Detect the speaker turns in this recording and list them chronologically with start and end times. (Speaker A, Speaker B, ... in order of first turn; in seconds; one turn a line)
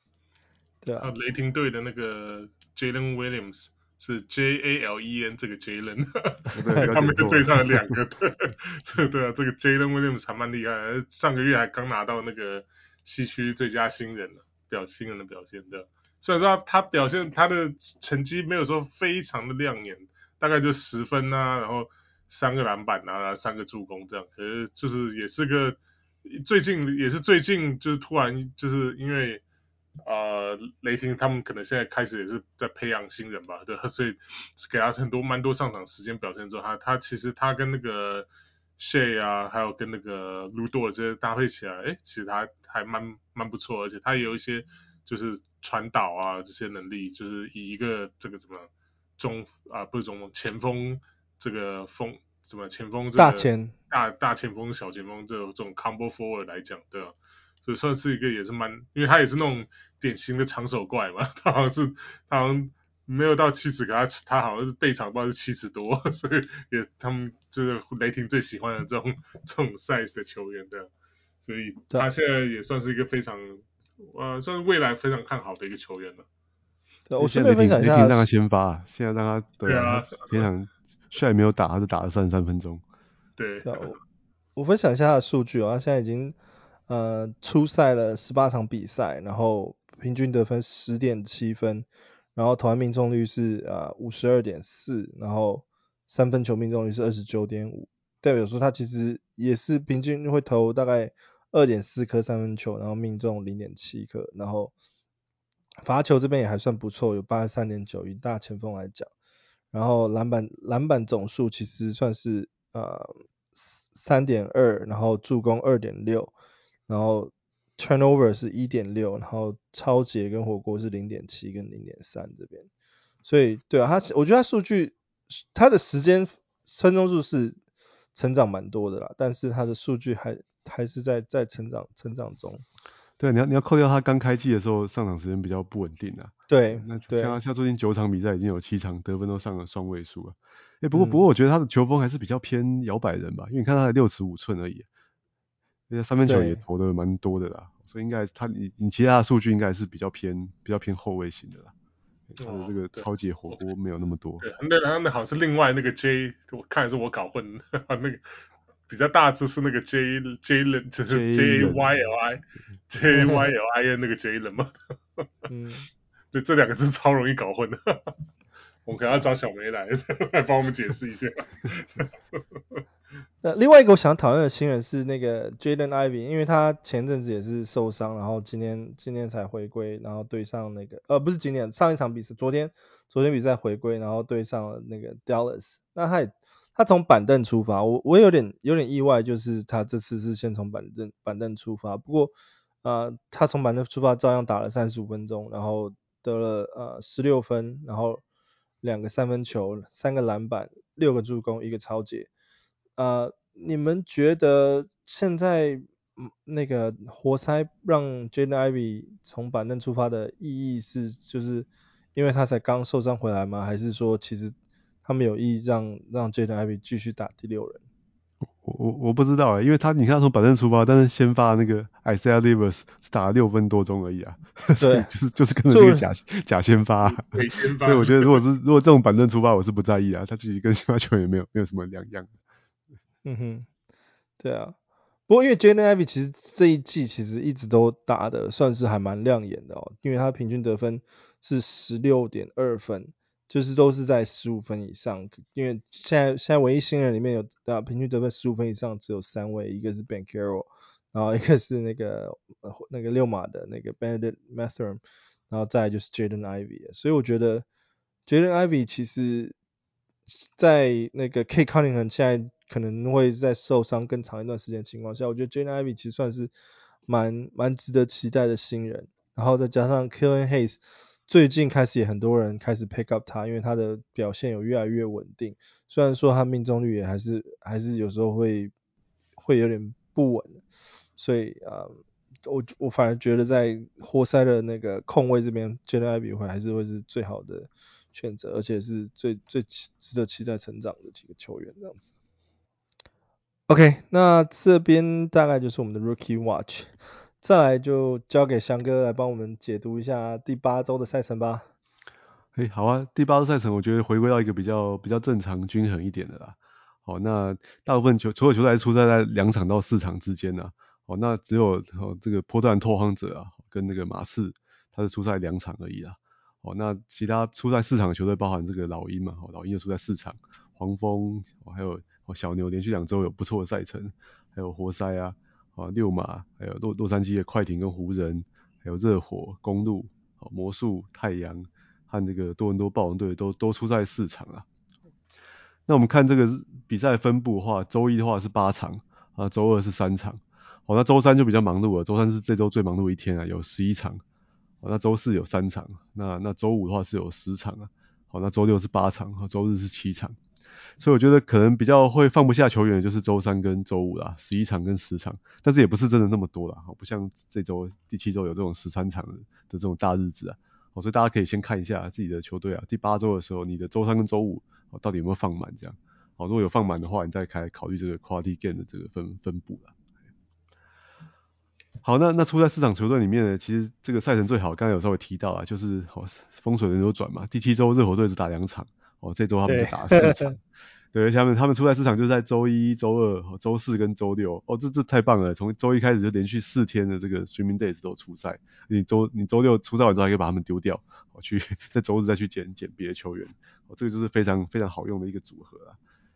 Speaker A: 0.8-1.1
Speaker B: 1.0-29.4
Speaker C: 6.5-7.9
Speaker B: 30.0-38.3
Speaker B: 38.8-70.9
Speaker A: 53.1-53.7
Speaker B: 71.5-76.3
Speaker A: 77.1-78.3
Speaker C: 77.2-82.8
Speaker B: 79.6-80.5
Speaker B: 83.4-84.0
Speaker A: 83.6-84.0
Speaker A: 84.6-86.3
Speaker A: 86.9-104.7
Speaker A: 105.8-109.1
Speaker A: 109.7-116.3
Speaker A: 116.9-122.7
Speaker A: 123.2-127.6
Speaker A: 128.2-132.6
Speaker C: 133.2-144.9
Speaker A: 136.5-137.4
Speaker A: 140.9-141.2
Speaker C: 145.9-151.7
Speaker A: 146.3-146.6
Speaker C: 152.3-154.5
Speaker B: 152.4-153.6
Speaker B: 154.4-158.4
Speaker B: 158.9-165.3
Speaker C: 161.1-162.0
Speaker A: 163.1-163.5
Speaker A: 165.5-165.9
Speaker B: 166.3-168.1
Speaker B: 168.9-172.8
Speaker A: 173.4-192.3
Speaker A: 192.8-198.2
Speaker A: 198.8-202.3
Speaker A: 203.0-217.8
Speaker C: 218.6-232.3
Speaker A: 224.8-225.1
Speaker A: 225.7-226.1
Speaker B: 227.1-228.4
Speaker A: 233.2-233.7
Speaker A: 234.4-234.8
Speaker A: 235.3-257.6
Speaker A: 258.3-259.6
Speaker A: 260.3-266.5
Speaker A: 267.1-278.7
Speaker A: 279.4-280.6
Speaker A: 281.2-292.1
Speaker A: 293.7-296.9
Speaker A: 297.4-301.7
Speaker C: 302.6-334.6
Speaker C: 335.9-344.2
Speaker C: 344.8-350.4
Speaker C: 351.0-369.9
Speaker C: 372.0-380.6
Speaker A: 379.6-380.5
Speaker C: 381.1-396.0